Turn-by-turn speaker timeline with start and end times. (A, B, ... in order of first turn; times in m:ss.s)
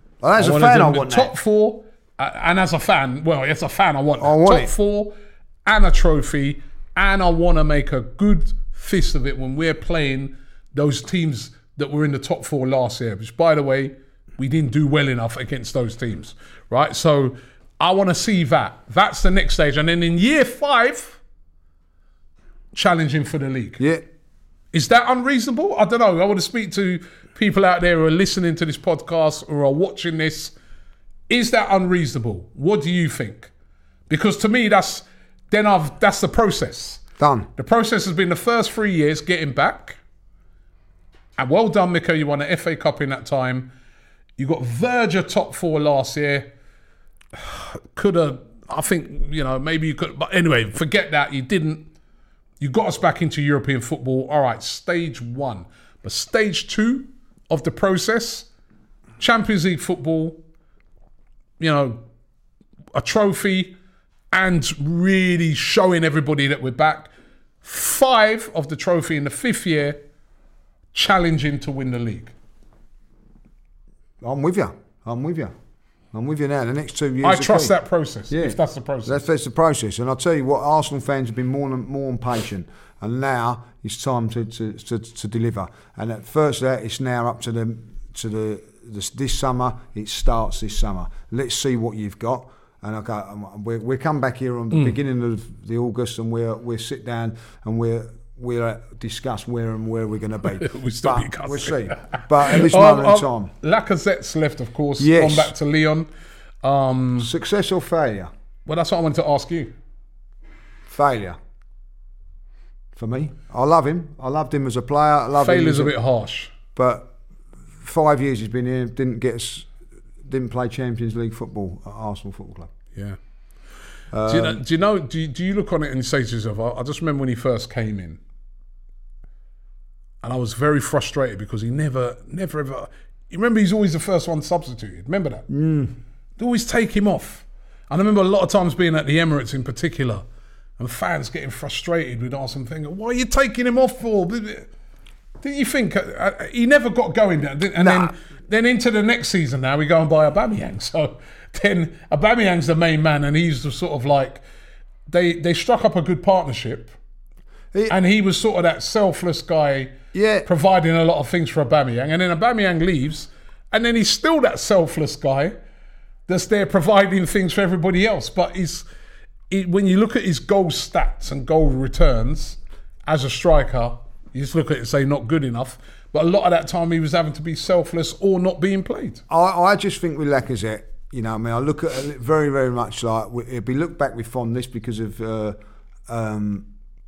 0:00.2-0:01.3 A
0:00.4-0:05.1 B
0:04.2-0:04.7 A
0:05.6-0:21.2 B
0:22.7-0:23.8 B
0:23.8-0:24.0 A
0:24.7-0:30.5 B
0:31.3-0:33.5 B
0:34.1-0:37.0 B
0:37.2-0:37.5 A
0:37.6-0:40.0 B
0:41.4-0:43.7 B
0:44.4-0:46.5 B
0:47.3-0:51.9 B
0:52.6-0:58.5 B
0:59.2-1:00.4 B
1:01.6-1:02.0 B
1:02.9-1:03.8 B
1:04.3-1:07.1 B
1:07.6-1:10.0 B
1:10.9-1:12.3 B
1:14.2-1:15.5 A
1:16.1-1:17.7 A
1:17.2-1:19.2 B
1:18.3-1:43.5 A
1:40.5-1:46.1 B
1:45.0-1:45.5 A
1:46.6-1:47.3 B
1:47.2-1:48.3 A
1:48.6-1:49.7 B
1:50.9-1:51.4 A
1:53.0-1:56.0 A
1:55.4-1:56.6 B
1:56.7-1:57.1 A
1:57.8-1:59.7 A
2:00.2-2:02.7 A
2:02.9-2:03.2 B
2:04.1-2:04.6 A
2:04.3-2:08.2 B
2:10.2-2:15.4 B
2:15.5-2:15.9 A
2:16.4-2:20.2 B
2:20.8-2:24.7 B
2:25.4-2:34.4 B
2:27.8-2:28.1 A
2:35.1-2:36.9 B
2:37.9-2:39.9 B
2:40.1-2:40.5 A
2:40.4-2:45.6 B
2:46.3-2:48.8 B
2:49.5-2:59.2 B
2:59.3-3:06.7 A